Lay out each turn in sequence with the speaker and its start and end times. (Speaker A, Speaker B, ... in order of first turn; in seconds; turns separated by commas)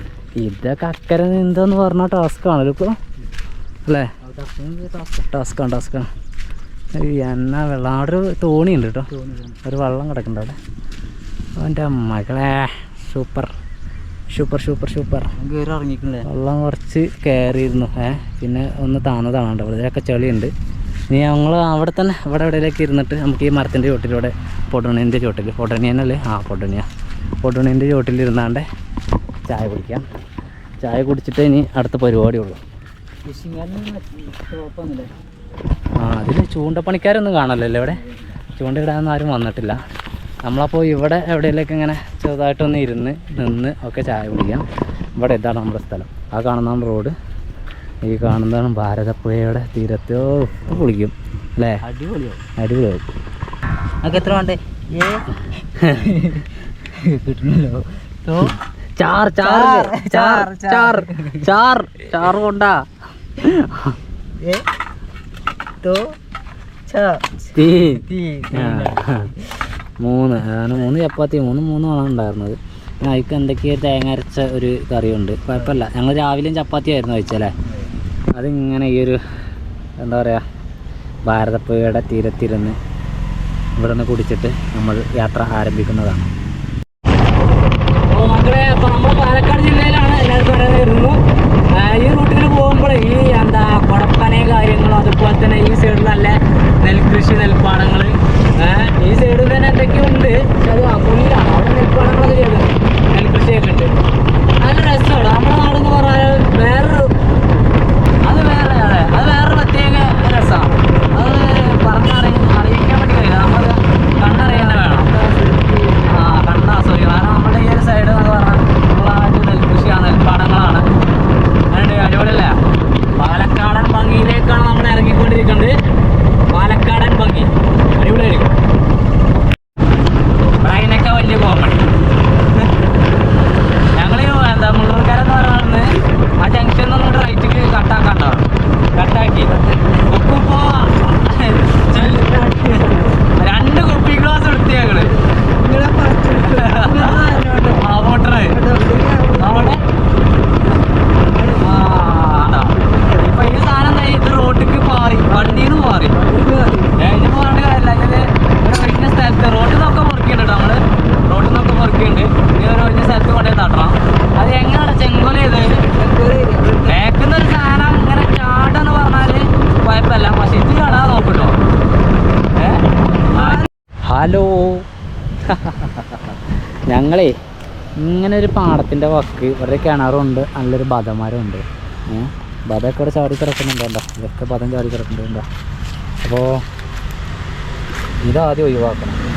Speaker A: 0.4-3.0, Speaker A: 3.9-4.1, Speaker B: 4.2-5.2, Speaker A: 5.2-6.1, Speaker A: 6.9-9.1, Speaker B: 9.1-9.6, Speaker A: 9.6-10.6, Speaker A: 11.6-13.5, Speaker A: 14.3-15.3, Speaker B: 15.3-16.3, Speaker A: 16.2-20.5, Speaker A: 21.1-26.9, Speaker A: 27.4-28.6, Speaker A: 29.5-30.1, Speaker A: 30.8-32.6, Speaker B: 33.2-35.1, Speaker A: 36.0-38.0, Speaker B: 38.0-38.4, Speaker A: 38.5-39.8, Speaker A: 40.4-44.6, Speaker A: 45.2-47.1, Speaker A: 48.0-51.8, Speaker B: 51.8-52.4, Speaker A: 52.6-53.1, Speaker B: 54.0-55.2, Speaker A: 55.8-56.1, Speaker B: 55.9-58.5, Speaker A: 59.0-62.8, Speaker B: 59.4-61.5, Speaker A: 63.4-64.0, Speaker B: 65.8-66.2, Speaker B: 66.9-69.5, Speaker A: 67.5-69.3, Speaker A: 70.0-77.5, Speaker A: 78.3-79.2, Speaker A: 80.0-80.4, Speaker A: 81.2-82.8, Speaker A: 83.8-86.3, Speaker A: 88.1-91.2, Speaker A: 91.7-103.9, Speaker A: 104.6-107.1, Speaker A: 108.2-115.1, Speaker B: 114.5-116.1, Speaker A: 116.0-120.8, Speaker A: 121.7-122.6, Speaker A: 123.2-125.8, Speaker A: 126.5-128.5, Speaker A: 130.6-131.9, Speaker A: 133.9-139.5, Speaker B: 139.5-140.1, Speaker A: 140.1-142.7, Speaker B: 142.1-143.2, Speaker A: 143.3-145.2, Speaker B: 145.1-147.8, Speaker A: 146.4-148.6, Speaker B: 148.5-149.8, Speaker A: 149.4-149.8, Speaker B: 151.3-151.9, Speaker A: 151.6-156.2, Speaker B: 152.8-153.3, Speaker B: 155.3-157.0, Speaker A: 156.9-165.8, Speaker B: 165.8-167.0, Speaker A: 166.8-171.6, Speaker A: 172.6-172.8, Speaker A: 173.3-174.8, Speaker A: 175.5-177.3, Speaker A: 178.0-185.4, Speaker A: 186.2-186.6, Speaker A: 188.2-189.2